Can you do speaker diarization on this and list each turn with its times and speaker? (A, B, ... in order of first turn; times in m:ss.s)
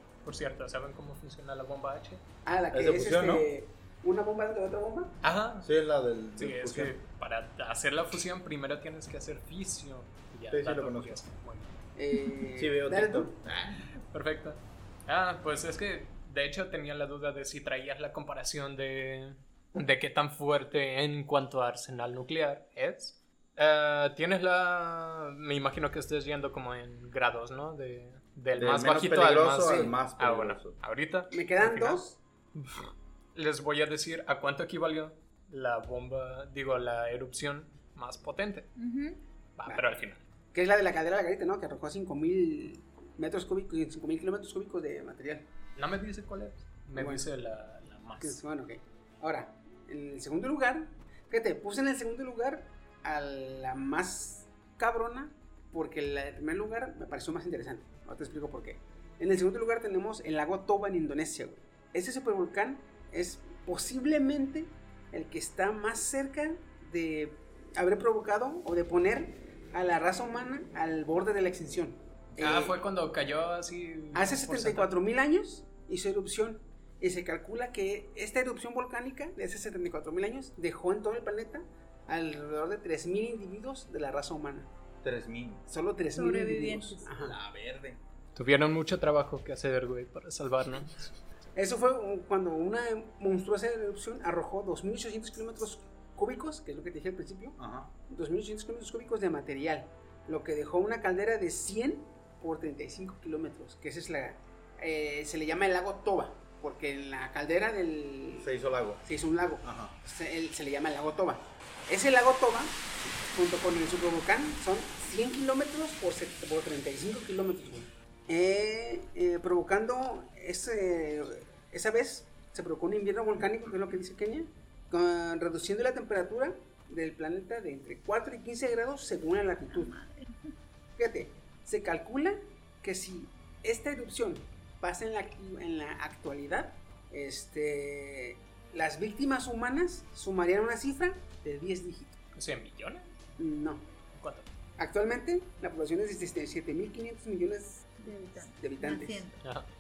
0:00.2-0:02.2 A
0:02.4-0:05.2 B
0:02.7-0:03.5 C
0:05.2-0:05.7 A
0:05.6-0:07.0 C
0:06.4-0:11.7 A
0:10.5-0:11.2 C
0:12.0-0:13.4 B
0:12.6-0:13.9 C
0:14.1-0:32.0 A
0:28.6-0:30.8 C
0:29.6-0:29.9 B
0:31.3-0:32.2 B
0:32.6-0:38.7 A
0:38.8-0:39.2 D
0:39.6-0:40.2 A
0:40.5-0:45.5 B
0:45.8-0:48.4 A
0:47.0-0:47.3 B
0:48.2-1:12.8 B
1:12.4-1:14.9 A
1:14.1-1:24.7 B
1:25.0-1:25.6 C
1:25.7-1:27.4 B
1:26.1-1:27.1 D
1:27.2-1:28.0 C
1:28.4-1:31.1 A
1:31.6-1:48.5 B
1:37.6-1:37.9 C
1:48.4-1:49.0 C
1:49.0-2:09.9 B
1:49.6-1:50.0 C
2:09.7-2:10.5 D
2:11.0-2:22.2 B
2:22.4-2:23.1 A
2:23.4-2:23.9 B
2:24.1-2:24.5 A
2:24.8-2:29.3 B
2:28.0-2:29.4 D
2:29.4-2:29.7 A